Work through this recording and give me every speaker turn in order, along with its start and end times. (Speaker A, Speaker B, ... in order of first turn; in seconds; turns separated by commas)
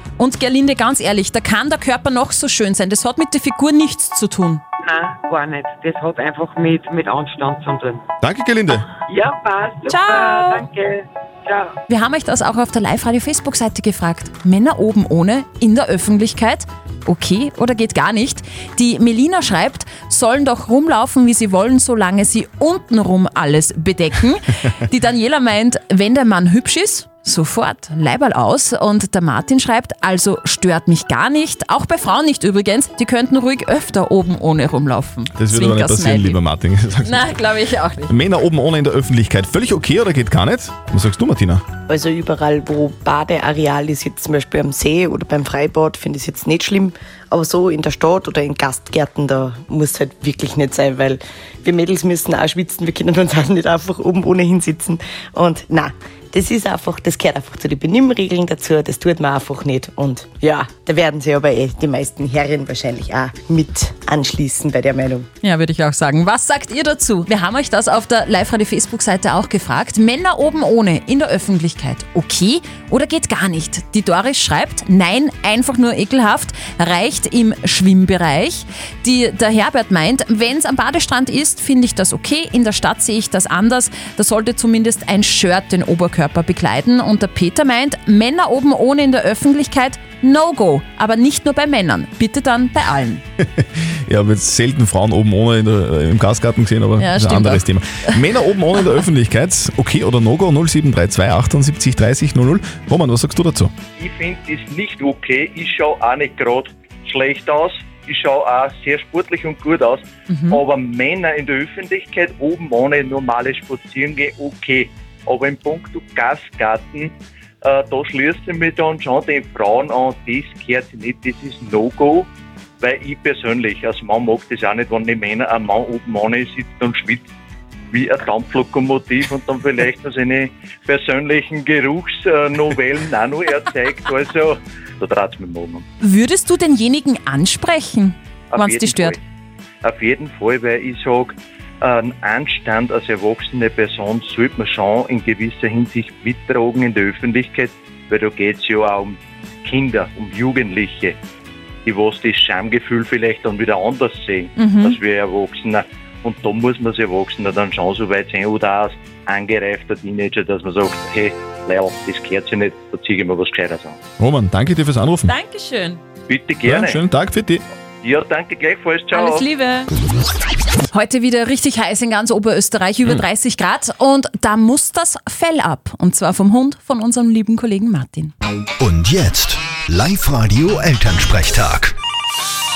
Speaker A: 0.2-4.6, Speaker B: 4.8-8.0, Speaker C: 8.2-8.9, Speaker B: 9.1-11.7, Speaker A: 9.9-10.7, Speaker A: 11.9-36.4, Speaker C: 35.3-37.4, Speaker A: 37.0-38.1, Speaker C: 38.1-41.6, Speaker D: 41.9-65.3, Speaker A: 65.4-93.2, Speaker C: 93.4-103.7, Speaker A: 97.0-97.6, Speaker E: 104.0-122.3, Speaker A: 110.3-110.6, Speaker E: 122.8-127.2, Speaker E: 127.9-135.8, Speaker A: 136.0-139.2, Speaker E: 138.5-139.2, Speaker E: 139.8-151.2, Speaker E: 151.8-164.0, Speaker A: 154.6-155.0, Speaker C: 164.2-165.3, Speaker A: 165.3-166.0, Speaker E: 166.3-167.0, Speaker C: 166.6-167.6, Speaker E: 168.0-169.4, Speaker A: 169.1-169.9, Speaker A: 170.9-178.3, Speaker F: 178.8-181.9